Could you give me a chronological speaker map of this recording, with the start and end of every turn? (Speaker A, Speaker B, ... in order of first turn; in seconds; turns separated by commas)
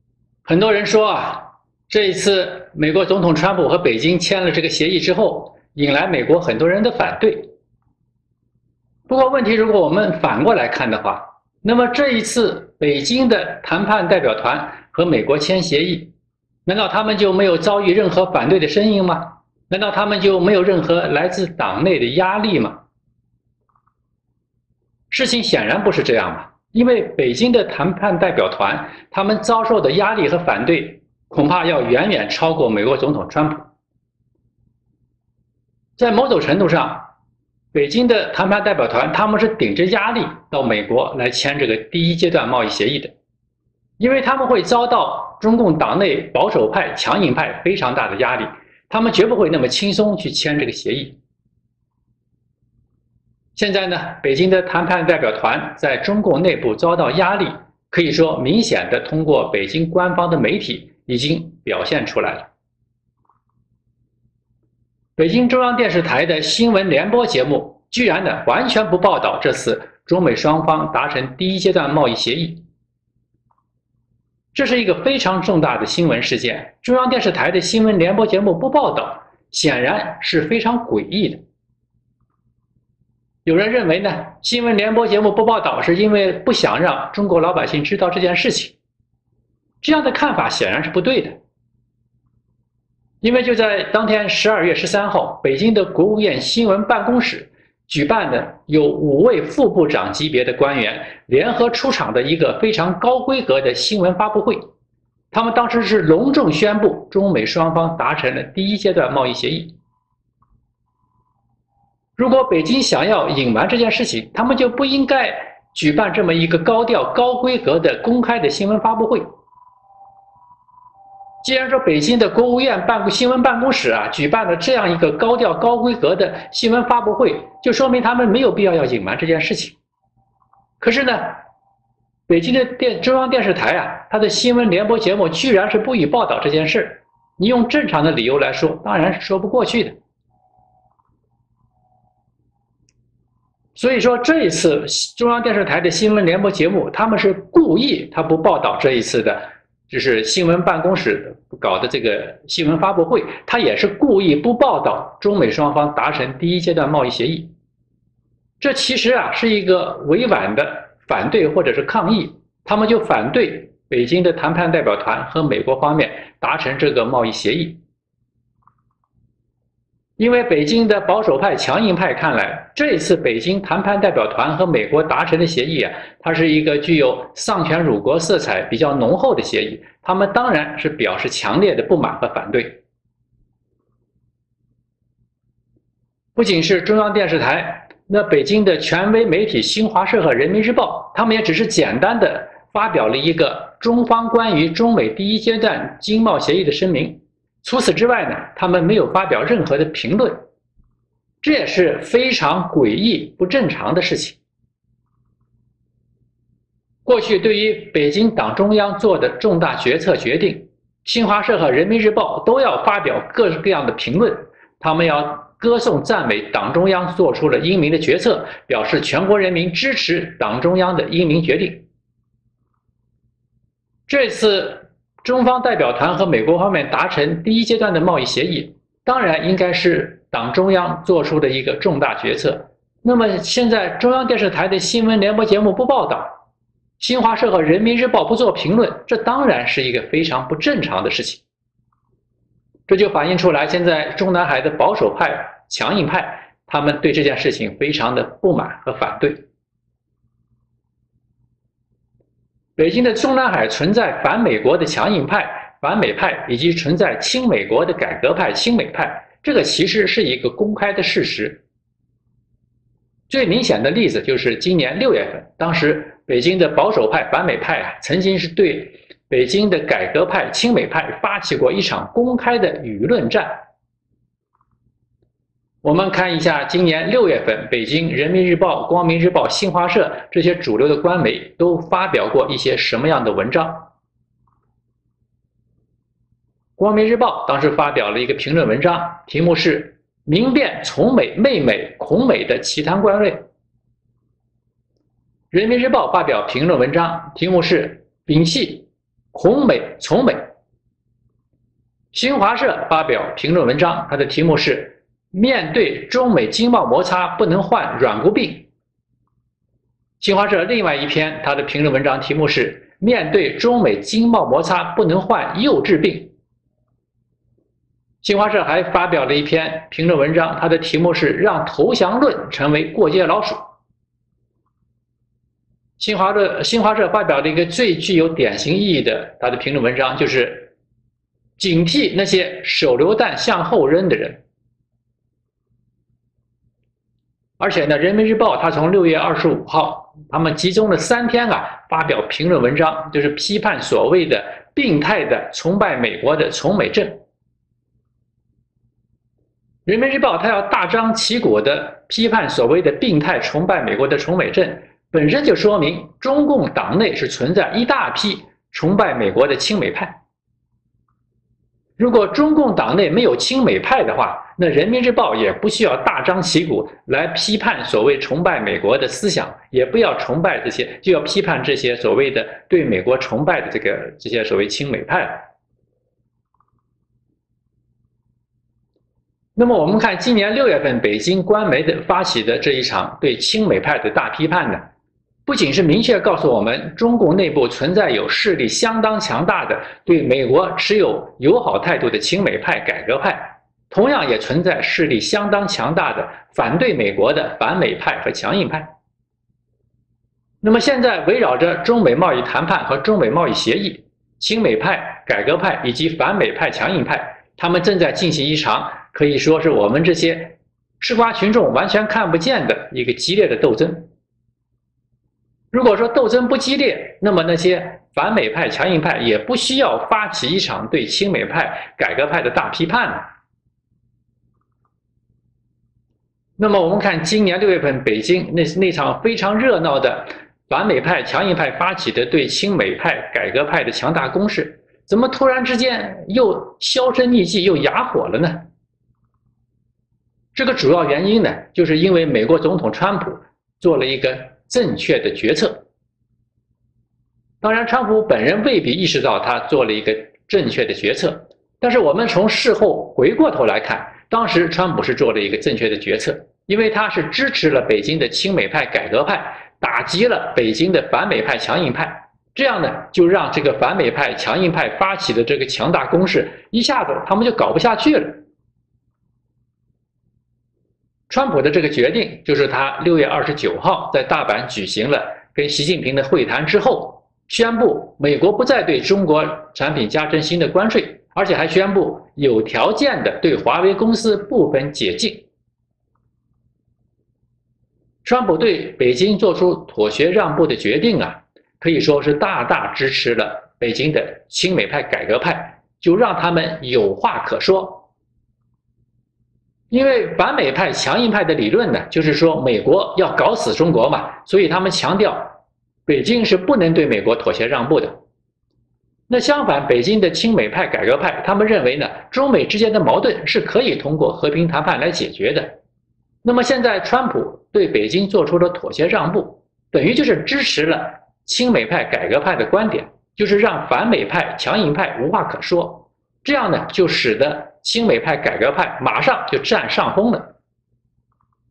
Speaker A: 0.5-7.5, Speaker A: 9.1-16.1, Speaker A: 16.7-22.8, Speaker A: 25.1-33.7, Speaker A: 36.0-37.1, Speaker A: 37.7-43.1, Speaker A: 44.0-51.2, Speaker A: 53.6-62.5, Speaker A: 65.2-72.6, Speaker A: 74.5-81.4, Speaker A: 83.5-88.8, Speaker A: 89.8-91.4, Speaker A: 93.2-104.7, Speaker A: 105.3-109.8, Speaker A: 112.2-119.2, Speaker A: 121.4-129.8, Speaker A: 130.8-131.4, Speaker A: 132.3-140.0, Speaker A: 143.8-157.5, Speaker A: 158.6-167.8, Speaker A: 170.2-182.8, Speaker A: 186.3-200.4, Speaker A: 201.4-204.4, Speaker A: 207.1-221.8, Speaker A: 224.1-236.4, Speaker A: 237.0-241.4, Speaker A: 242.9-249.4, Speaker A: 252.8-261.6, Speaker A: 263.3-273.6, Speaker A: 275.8-283.9, Speaker A: 286.8-293.4, Speaker A: 295.5-300.4, Speaker A: 302.1-308.7, Speaker A: 310.2-316.3, Speaker A: 318.2-323.6, Speaker A: 326.0-330.7, Speaker A: 331.6-334.4, Speaker A: 337.6-347.2, Speaker A: 349.9-360.2, Speaker A: 362.0-375.4, Speaker A: 379.6-384.8, Speaker A: 385.5-398.9, Speaker A: 400.6-414.1, Speaker A: 415.7-423.3, Speaker A: 426.6-438.6, Speaker A: 440.6-445.8, Speaker A: 447.6-468.4, Speaker A: 471.3-485.5, Speaker A: 488.2-498.1, Speaker A: 499.9-508.2, Speaker A: 509.3-515.8, Speaker A: 516.4-530.5